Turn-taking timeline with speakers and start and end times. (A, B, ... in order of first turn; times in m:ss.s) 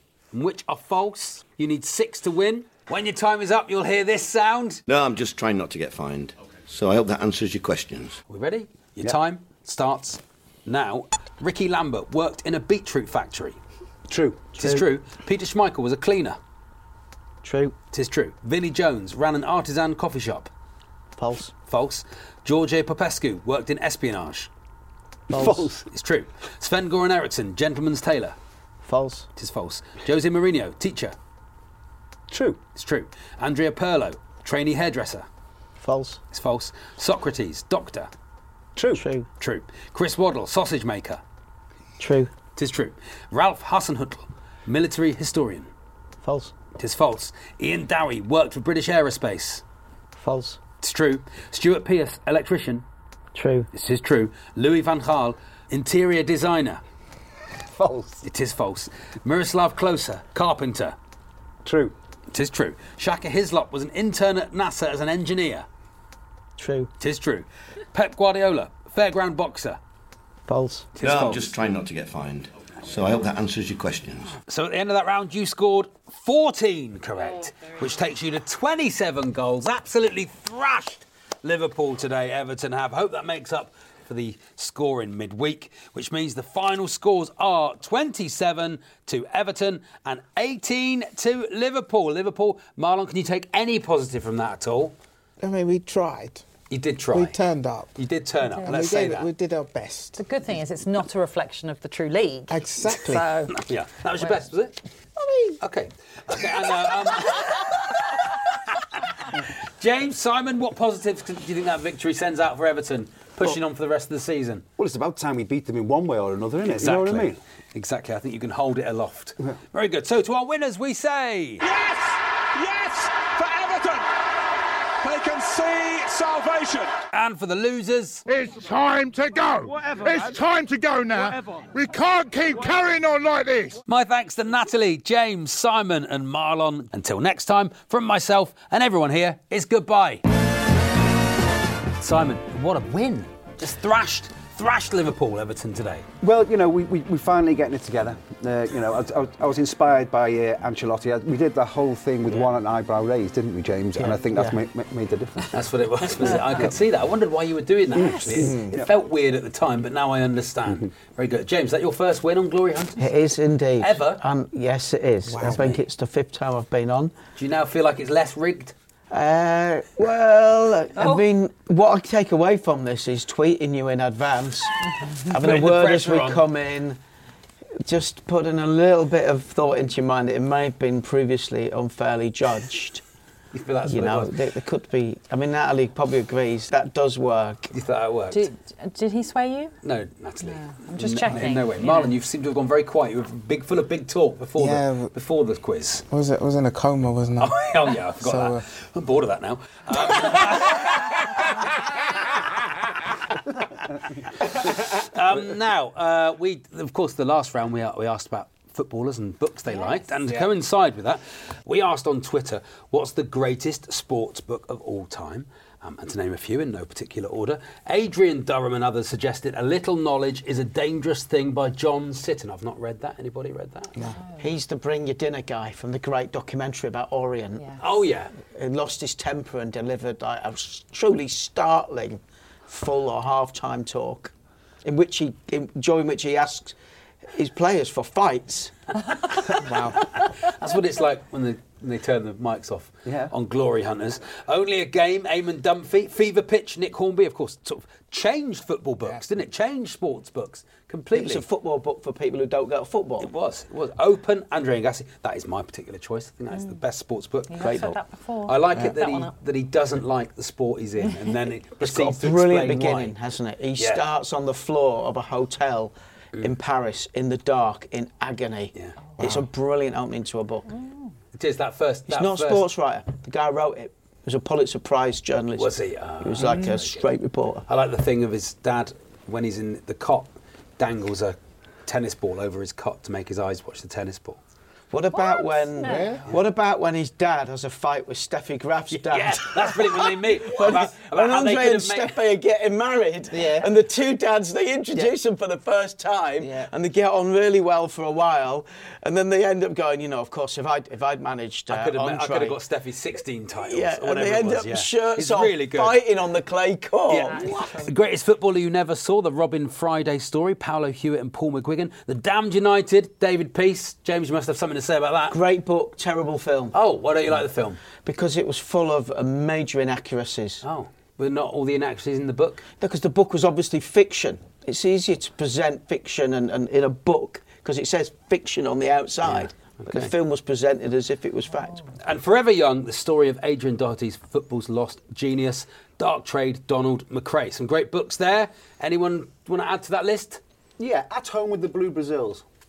0:00.3-0:04.8 A
0:04.9-0:08.2 B
0:08.3-0:13.6 A
0:14.1-0:14.5 C
0:14.5-0:16.4 A
0:14.6-0:14.8 D
0:17.4-0:17.7 D
0:17.9-0:20.5 A
0:21.2-0:21.5 D
0:21.7-0:24.5 A
0:25.3-0:25.7 D
0:25.3-0:25.8 C
0:25.8-0:28.4 A
0:28.8-0:29.3 D
0:29.4-0:31.2 A
0:32.3-0:32.6 C
0:32.7-0:35.2 A
0:35.8-0:36.2 D
0:36.3-0:38.1 A
0:38.8-0:39.0 C
0:38.9-0:39.3 D
0:39.4-0:41.2 A
0:42.0-0:42.3 D
0:42.6-0:45.7 A
0:46.2-0:46.5 D
0:46.8-0:49.6 A
0:50.1-0:50.6 D
0:50.8-0:52.8 A
0:53.3-0:53.7 D
0:53.7-0:56.8 A
0:57.8-0:58.2 C
0:58.2-1:01.0 A
1:01.6-1:01.9 C
1:02.3-1:05.6 A
1:06.6-1:06.9 D
1:07.0-1:09.8 A
1:10.5-1:10.9 D
1:11.0-1:11.5 A
1:11.0-1:14.3 B
1:14.5-1:34.9 A
1:35.4-1:36.4 E
1:36.7-1:37.4 A
1:37.1-1:38.0 E
1:38.0-1:39.3 A
1:38.6-1:40.2 E
1:40.2-1:43.5 F
1:42.5-1:43.2 E
1:43.5-1:44.8 A
1:45.2-1:45.6 E
1:45.6-1:47.9 A
1:49.3-1:54.6 A
1:54.8-1:57.4 C
1:56.7-2:01.6 A
2:02.6-2:04.0 G
2:05.0-2:06.9 G
2:07.1-2:08.2 A
2:08.2-2:13.8 H
2:13.8-2:20.2 A
2:22.0-2:26.0 A
2:26.2-2:35.6 C
2:34.0-2:34.6 D
2:35.5-2:43.0 A
2:37.9-2:38.8 C
2:38.4-2:38.7 D
2:43.0-2:47.1 D
2:43.8-2:44.2 A
2:45.3-2:45.6 E
2:45.4-2:45.8 A
2:47.4-2:48.7 A
2:49.1-2:54.7 D
2:51.0-2:51.2 F
2:55.3-2:57.0 D
2:55.4-2:56.4 A
2:57.8-3:03.0 D
3:03.5-3:04.3 A
3:03.8-3:07.7 D
3:07.7-3:08.5 A
3:08.3-3:09.7 F
3:09.8-3:16.0 A
3:10.5-3:12.1 F
3:14.6-3:15.1 E
3:16.1-3:18.6 E
3:17.4-3:21.0 A
3:24.4-3:44.0 A
3:29.7-3:30.0 F
3:44.4-3:47.8 D
3:47.8-3:48.3 A
3:48.4-3:54.3 D
3:54.8-3:56.8 D
3:57.3-3:58.7 D
3:59.6-4:00.0 E
4:00.2-4:11.4 A
4:03.0-4:03.3 C
4:11.1-4:13.3 D
4:13.2-4:17.9 A
4:17.5-4:19.3 F
4:17.6-4:18.0 D
4:18.4-4:23.1 A
4:21.8-4:30.8 D
4:23.8-4:24.0 A
4:28.7-4:29.3 A
4:31.3-4:32.6 A
4:32.1-4:37.6 D
4:35.6-4:36.9 A
4:37.6-4:44.4 A
4:44.9-5:02.6 D
4:45.1-4:46.2 F
4:45.8-4:46.3 E
4:48.9-4:52.1 A
4:53.3-4:53.7 E
4:56.4-4:56.7 E
5:01.7-5:06.0 A
5:03.6-5:07.7 D
5:07.1-5:15.4 A
5:07.3-5:07.8 F
5:15.3-5:16.7 D
5:16.7-5:17.8 A
5:18.0-5:20.6 D
5:20.6-5:22.6 A
5:22.8-5:31.8 D
5:29.2-5:30.1 A
5:32.0-5:40.4 A
5:40.8-5:42.4 C